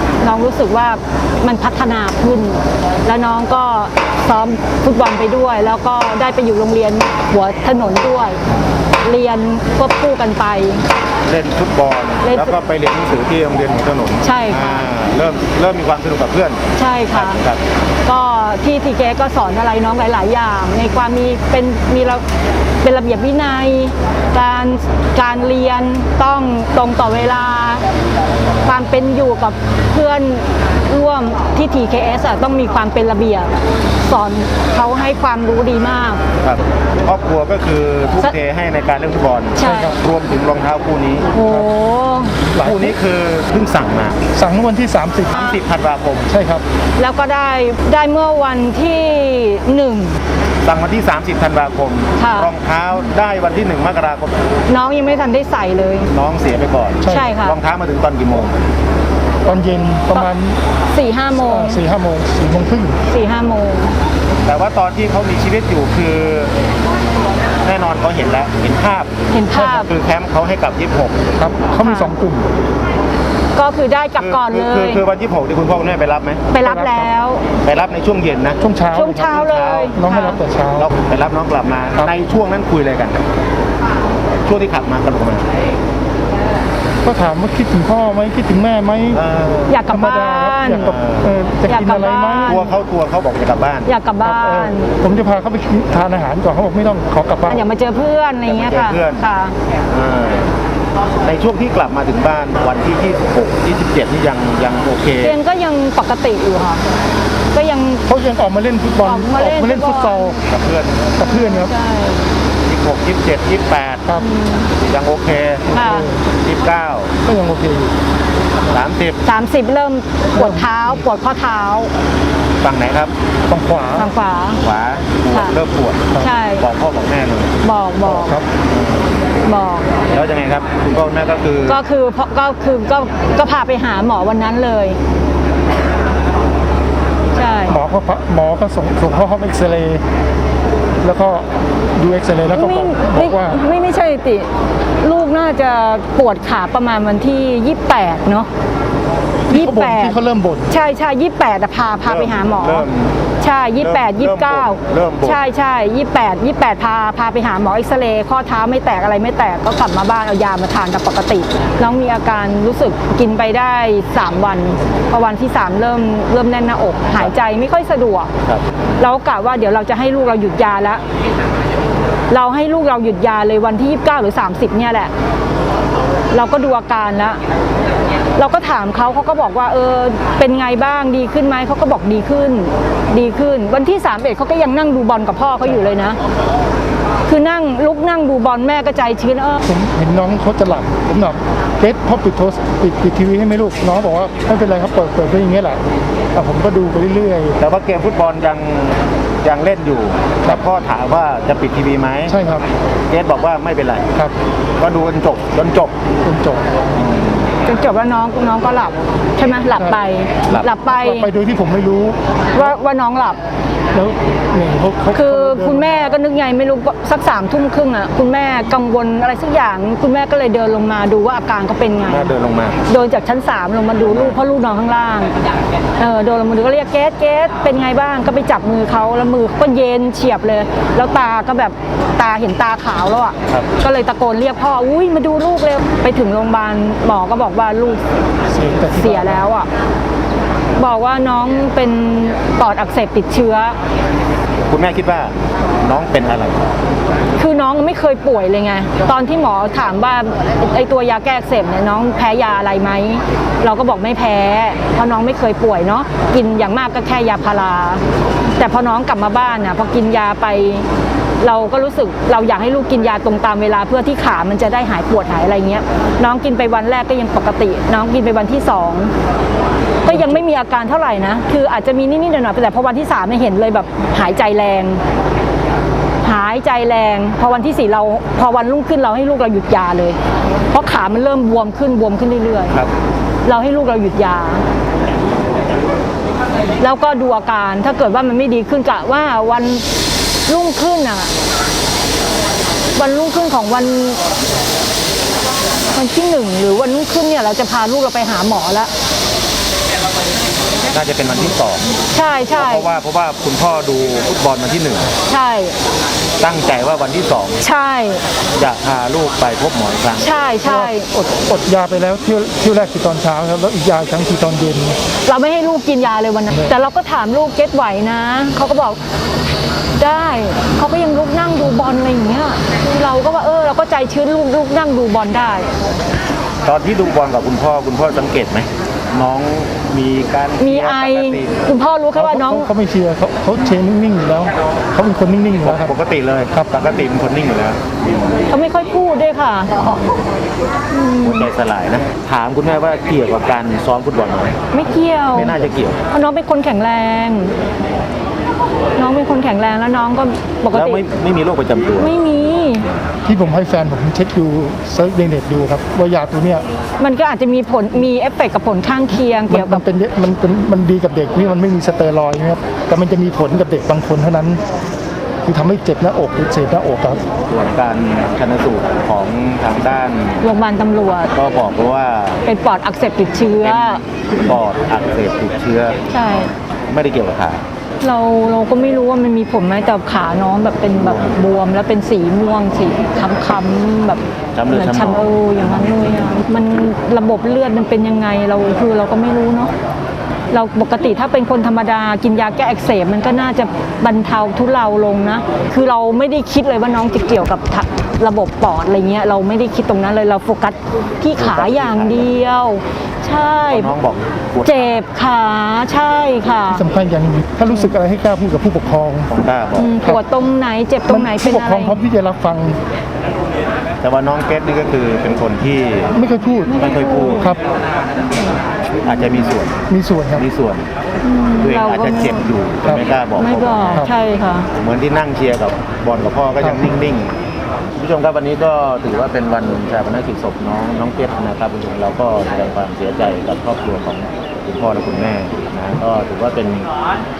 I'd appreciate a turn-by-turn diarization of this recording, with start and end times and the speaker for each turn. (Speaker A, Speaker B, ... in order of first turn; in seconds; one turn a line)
Speaker A: 0.2-8.4
Speaker A: 9.0-10.8
Speaker B: 11.2-17.6
Speaker A: 12.2-12.6
Speaker A: 14.2-14.8
Speaker A: 16.7-17.4
Speaker A: 18.0-22.2
Speaker A: 22.8-27.8
Speaker A: 28.6-36.2
Speaker B: 36.4-41.3
Speaker A: 39.6-40.0
Speaker C: 39.6-40.0
Speaker A: 41.3-42.3
Speaker C: 41.3-41.7
Speaker C: 42.5-43.0
Speaker B: 42.6-44.2
Speaker C: 44.3-45.4
Speaker B: 45.3-46.3
Speaker C: 46.3-46.6
Speaker A: 47.0-50.2
Speaker B: 50.6-54.3
Speaker A: 52.2-52.5
Speaker A: 54.7-56.1
Speaker B: 56.1-58.6
Speaker C: 57.0-57.3
Speaker A: 57.1-57.6
Speaker C: 59.4-60.6
Speaker A: 60.9-61.8
Speaker C: 61.4-63.0
Speaker A: 63.1-63.9
Speaker B: 64.5-66.5
Speaker B: 67.6-69.1
Speaker A: 69.3-69.9
Speaker C: 69.5-69.8
Speaker B: 69.7-71.2
Speaker C: 71.3-72.5
Speaker A: 71.8-72.1
Speaker A: 73.5-75.0
Speaker B: 74.2-76.4
Speaker A: 76.5-77.4
Speaker C: 76.6-77.1
Speaker B: 77.6-78.6
Speaker C: 78.6-81.0
Speaker A: 78.9-80.4
Speaker B: 79.2-79.9
Speaker B: 80.8-83.2
Speaker B: 84.4-85.5
Speaker C: 87.0-89.2
Speaker B: 89.1-89.8
Speaker A: 89.7-90.8
Speaker C: 89.8-92.6
Speaker B: 90.8-91.3
Speaker A: 91.7-92.7
Speaker B: 92.4-93.9
Speaker A: 93.8-94.9
Speaker C: 94.2-97.6
Speaker A: 97.5-99.5
Speaker B: 98.5-99.2
Speaker B: 99.9-100.5
Speaker B: 101.2-105.4
Speaker A: 105.2-106.8
Speaker A: 107.5-108.0
Speaker C: 108.1-110.4
Speaker A: 109.0-110.4
Speaker B: 110.4-111.1
Speaker C: 111.2-111.7
Speaker A: 111.2-112.2
Speaker B: 112.7-114.1
Speaker A: 114.2-114.7
Speaker B: 114.8-115.7
Speaker A: 115.7-116.1
Speaker C: 115.7-116.2
Speaker B: 116.3-117.1
Speaker C: 117.2-117.9
Speaker B: 118.7-119.2
Speaker A: 119.2-121.9
Speaker C: 120.3-120.9
Speaker B: 122.6-123.1
Speaker C: 123.5-124.1
Speaker A: 124.0-124.6
Speaker B: 124.6-127.5
Speaker A: 125.3-125.6
Speaker A: 126.2-126.7
Speaker A: 127.6-128.4
Speaker C: 128.0-128.5
Speaker B: 128.7-129.1
Speaker A: 129.4-129.9
Speaker B: 130.1-131.8
Speaker A: 131.7-135.0
Speaker A: 137.3-137.8
Speaker C: 137.7-140.0
Speaker C: 141.0-143.6
Speaker A: 142.5-144.5
Speaker A: 145.0-148.5
Speaker C: 149.5-150.7
Speaker A: 149.5-152.9
Speaker B: 152.0-153.2
Speaker A: 153.4-168.3
Speaker B: 153.8-155.4
Speaker B: 168.4-169.0
Speaker A: 169.0-171.0
Speaker A: 172.3-175.1
Speaker A: 176.3-177.4
Speaker A: 178.3-186.2
Speaker A: 187.2-189.6
Speaker C: 189.7-195.8
Speaker C: 196.3-197.6
Speaker B: 197.6-202.3
Speaker C: 202.3-202.7
Speaker B: 203.1-204.1
Speaker B: 204.8-205.9
Speaker C: 206.2-206.7
Speaker B: 206.9-207.3
Speaker A: 207.6-211.3
Speaker C: 209.8-212.7
Speaker A: 212.5-213.4
Speaker C: 213.9-216.1
Speaker A: 215.1-222.3
Speaker B: 222.0-222.8
Speaker A: 222.8-225.3
Speaker B: 224.0-224.4
Speaker A: 226.0-238.0
Speaker C: 238.5-239.4
Speaker A: 238.9-239.7
Speaker A: 240.8-243.8
Speaker B: 244.7-246.8
Speaker A: 247.4-258.0
Speaker A: 258.6-260.9
Speaker A: 261.4-269.1
Speaker A: 270.0-275.0
Speaker C: 270.1-270.4
Speaker A: 276.2-280.2
Speaker A: 280.7-282.8
Speaker A: 283.4-284.6
Speaker A: 286.8-289.8
Speaker A: 290.5-291.3
Speaker A: 292.9-294.2
Speaker A: 295.9-298.9
Speaker B: 300.9-301.9
Speaker A: 302.1-302.9
Speaker B: 302.5-305.1
Speaker A: 305.3-305.7
Speaker B: 306.4-307.6
Speaker A: 307.6-308.2
Speaker B: 308.6-310.3
Speaker A: 310.2-311.1
Speaker C: 310.6-314.9
Speaker A: 315.2-319.0
Speaker A: 320.0-325.7
Speaker B: 326.6-331.6
Speaker A: 330.6-332.7
Speaker C: 332.1-335.9
Speaker B: 335.6-338.4
Speaker C: 336.5-336.9
Speaker A: 338.5-339.8
Speaker A: 340.9-341.5
Speaker B: 341.2-344.6
Speaker A: 344.7-345.6
Speaker B: 345.3-346.0
Speaker A: 346.1-347.5
Speaker A: 349.0-351.0
Speaker B: 350.7-352.1
Speaker A: 352.0-352.9
Speaker C: 353.2-356.6
Speaker A: 357.0-359.8
Speaker C: 359.5-364.6
Speaker C: 365.4-367.2
Speaker B: 367.3-370.4
Speaker A: 370.4-371.3
Speaker B: 371.3-372.4
Speaker A: 372.4-374.0
Speaker B: 373.6-376.0
Speaker A: 376.1-376.5
Speaker B: 376.9-377.6
Speaker A: 378.0-389.7
Speaker B: 380.9-381.3
Speaker B: 384.5-386.6
Speaker A: 390.5-403.9
Speaker B: 401.4-402.4
Speaker B: 403.6-405.0
Speaker A: 404.6-406.9
Speaker C: 406.7-409.3
Speaker B: 409.3-409.9
Speaker A: 409.8-412.0
Speaker C: 411.1-412.8
Speaker B: 414.0-416.1
Speaker C: 416.1-416.8
Speaker A: 416.6-417.5
Speaker B: 416.8-417.5
Speaker B: 419.0-419.8
Speaker C: 419.9-420.4
Speaker B: 420.3-420.9
Speaker A: 421.2-422.4
Speaker B: 421.6-424.0
Speaker C: 422.8-423.1
Speaker A: 423.3-424.7
Speaker B: 424.8-427.3
Speaker C: 426.6-426.9
Speaker B: 428.0-436.9